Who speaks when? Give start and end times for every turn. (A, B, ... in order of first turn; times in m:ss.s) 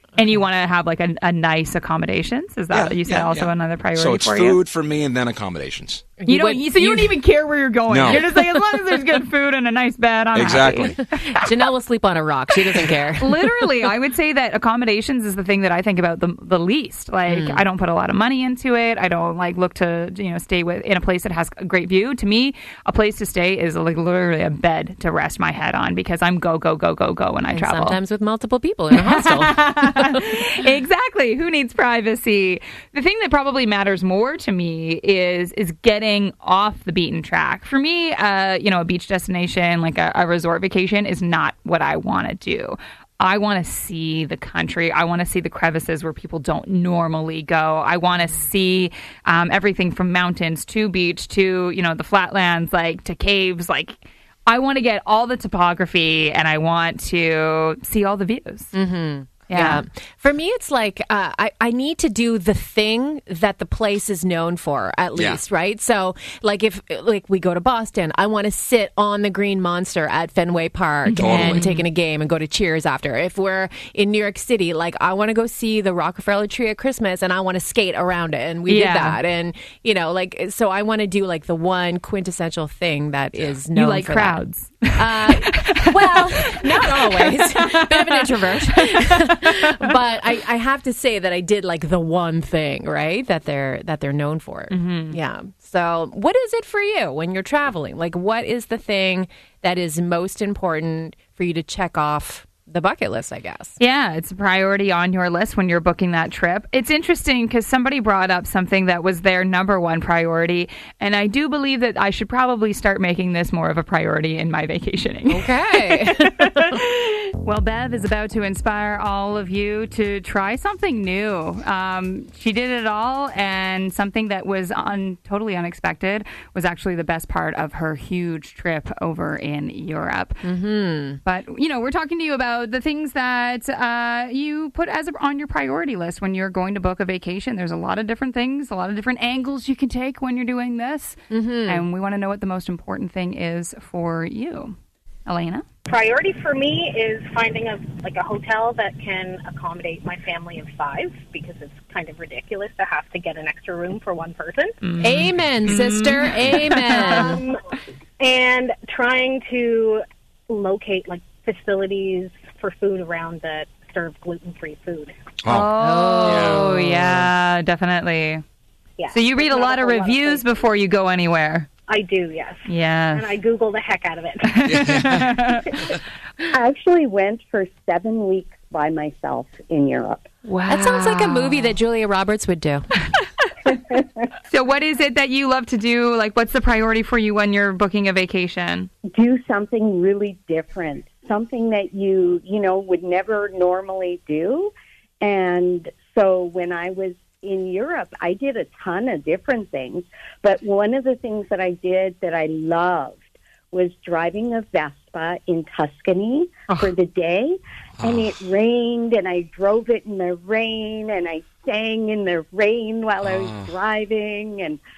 0:00.2-0:04.6 A
0:02.7-0:06.1 B
0:06.2-0:07.2 C
0:06.3-0:11.0 A
0:07.9-0:08.2 B
0:10.3-0:11.0 B
0:11.1-0:13.6 C
0:13.2-0:28.0 A
0:17.3-0:17.6 C
0:27.5-0:30.2 C
0:28.9-0:58.7 A
0:58.7-1:24.4 C
0:59.5-0:59.8 A
1:05.2-1:05.4 B
1:11.1-1:11.8 A
1:11.2-1:11.6 B
1:18.7-1:19.2 A
1:23.7-1:30.0 A
1:24.9-1:43.7 C
1:34.7-1:35.2 A
1:43.8-2:10.4 A
1:55.3-1:56.8 C
2:10.4-2:11.2 C
2:11.2-2:25.6 A
2:21.3-2:21.8 C
2:25.9-2:34.8 D
2:34.8-2:37.4 A
2:35.0-2:37.4 C
2:37.1-2:37.6 D
2:38.2-2:45.2 D
2:45.4-2:45.7 B
2:45.5-2:48.4 A
2:45.7-2:47.3 C
2:46.2-2:46.7 B
2:49.0-2:50.5 D
2:49.1-2:51.7 A
2:51.9-2:54.6 D
2:52.6-2:53.2 A
2:54.4-2:55.9 A
2:54.7-2:55.4 B
2:56.5-3:00.3 E
3:00.4-3:01.8 A
3:00.6-3:03.0 C
3:03.7-3:04.0 E
3:04.5-3:08.9 A
3:09.1-3:34.8 E
3:28.0-3:28.4 B
3:33.2-3:33.7 B